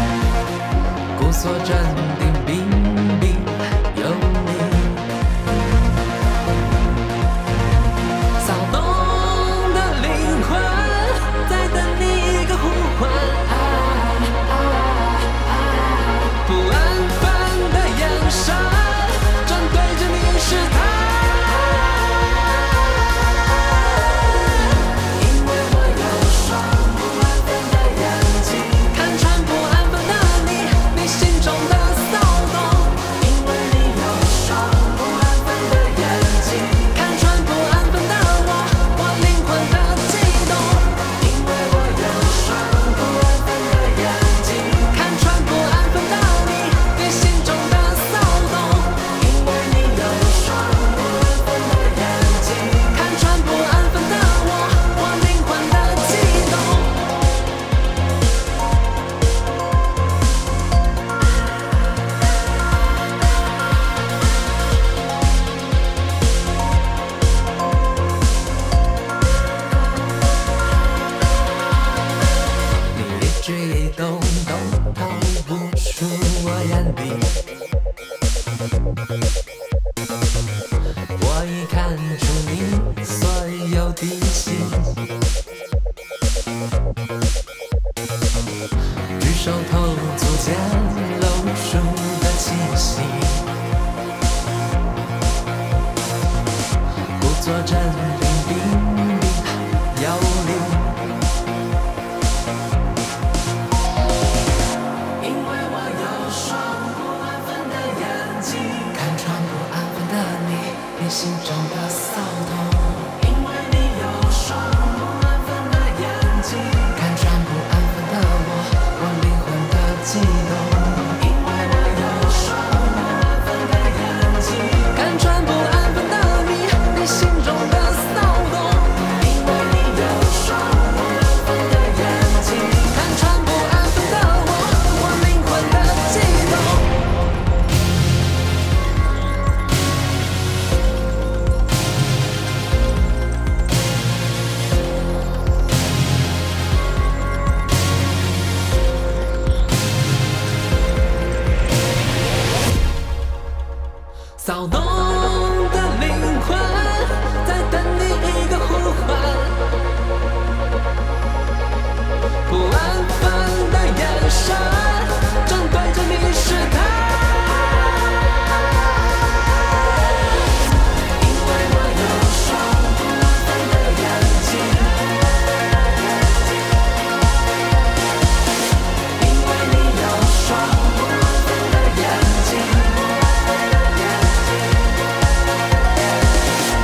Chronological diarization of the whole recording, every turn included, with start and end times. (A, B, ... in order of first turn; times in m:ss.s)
0:01.2-0:05.1 A
0:08.4-0:23.0 A
0:23.6-0:24.2 A
0:25.2-0:57.1 A
1:12.9-1:17.4 A
1:21.2-1:25.0 A
1:29.2-1:33.5 A
1:37.2-1:41.0 A
1:45.2-2:16.9 A
2:34.4-2:39.6 A
2:42.5-2:47.9 A
2:51.2-2:55.1 A
2:59.2-3:05.1 A